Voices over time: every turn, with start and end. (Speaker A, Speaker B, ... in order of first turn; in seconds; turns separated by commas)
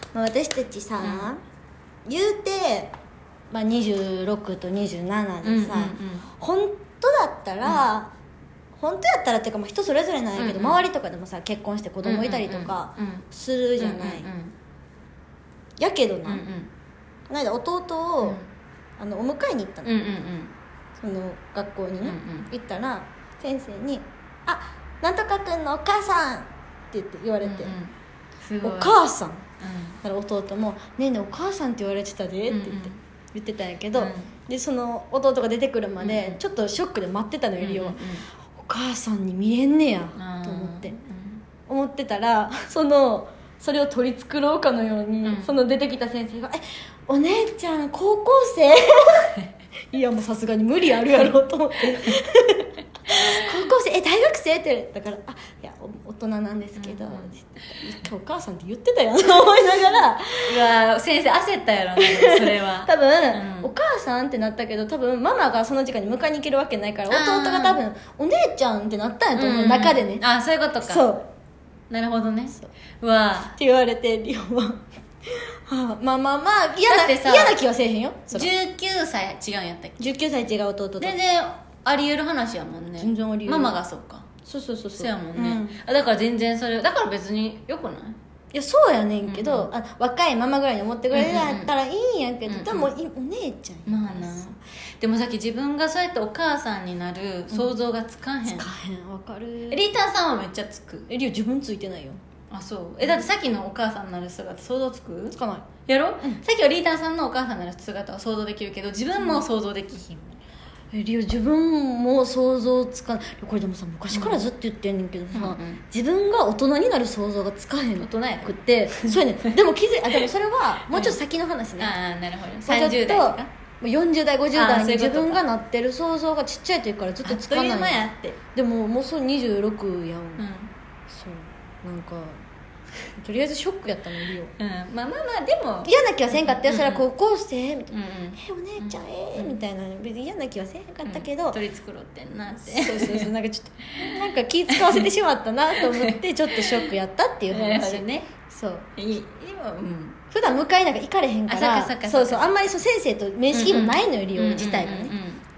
Speaker A: 0.1-1.4, Speaker B: 1.0-1.3, Speaker A: 2.0-2.9, Speaker A: 3.5-8.1, Speaker B: 5.4-6.3, Speaker B: 7.6-7.9, Speaker A: 8.8-14.3, Speaker B: 10.4-10.8, Speaker B: 12.0-13.2, Speaker B: 13.8-14.5, Speaker A: 15.8-16.4, Speaker B: 16.2-16.7, Speaker A: 17.3-18.4, Speaker B: 18.2-18.5, Speaker A: 19.0-20.0, Speaker B: 19.8-20.5, Speaker A: 21.0-27.8, Speaker B: 22.0-22.5, Speaker B: 27.4-29.0, Speaker A: 28.6-29.4, Speaker B: 29.6-30.0, Speaker A: 30.0-38.0, Speaker B: 32.5-33.0, Speaker B: 33.9-34.3, Speaker B: 36.0-36.4, Speaker B: 37.6-38.3, Speaker A: 38.5-41.0, Speaker B: 40.2-41.4, Speaker A: 41.7-49.4, Speaker B: 45.2-45.5, Speaker A: 49.9-60.7, Speaker B: 53.1-53.4, Speaker B: 56.8-57.4, Speaker B: 60.4-63.7, Speaker A: 62.0-70.2, Speaker B: 67.1-67.8, Speaker B: 69.3-71.1, Speaker A: 70.8-71.3, Speaker B: 71.9-73.5, Speaker A: 73.5-74.8, Speaker A: 75.7-78.5, Speaker B: 76.8-77.6, Speaker B: 78.3-80.1, Speaker A: 80.0-81.1, Speaker B: 81.0-84.3, Speaker A: 83.0-83.8, Speaker A: 84.4-85.8, Speaker B: 84.9-88.2, Speaker A: 88.5-94.6, Speaker B: 89.2-89.7, Speaker B: 91.1-91.7, Speaker B: 92.5-92.9, Speaker B: 93.8-98.7, Speaker A: 98.4-99.9, Speaker B: 99.7-101.1, Speaker A: 101.1-102.2, Speaker B: 102.5-110.4, Speaker A: 105.3-105.7, Speaker A: 109.2-109.4, Speaker A: 110.9-121.9, Speaker B: 114.1-114.5, Speaker B: 115.3-115.8, Speaker B: 118.0-119.6, Speaker B: 120.9-121.2, Speaker B: 121.8-123.5, Speaker A: 122.7-130.4, Speaker B: 124.5-125.5, Speaker B: 127.2-128.4, Speaker B: 130.4-130.7, Speaker A: 131.1-132.4, Speaker A: 133.1-134.5, Speaker B: 134.6-137.0, Speaker A: 135.8-141.6, Speaker B: 137.9-139.6, Speaker B: 141.0-143.3, Speaker A: 142.5-148.9, Speaker B: 143.9-145.1, Speaker B: 145.7-146.9, Speaker B: 147.5-148.3, Speaker B: 148.9-150.2, Speaker A: 150.3-155.1, Speaker B: 151.5-152.5, Speaker B: 153.5-155.4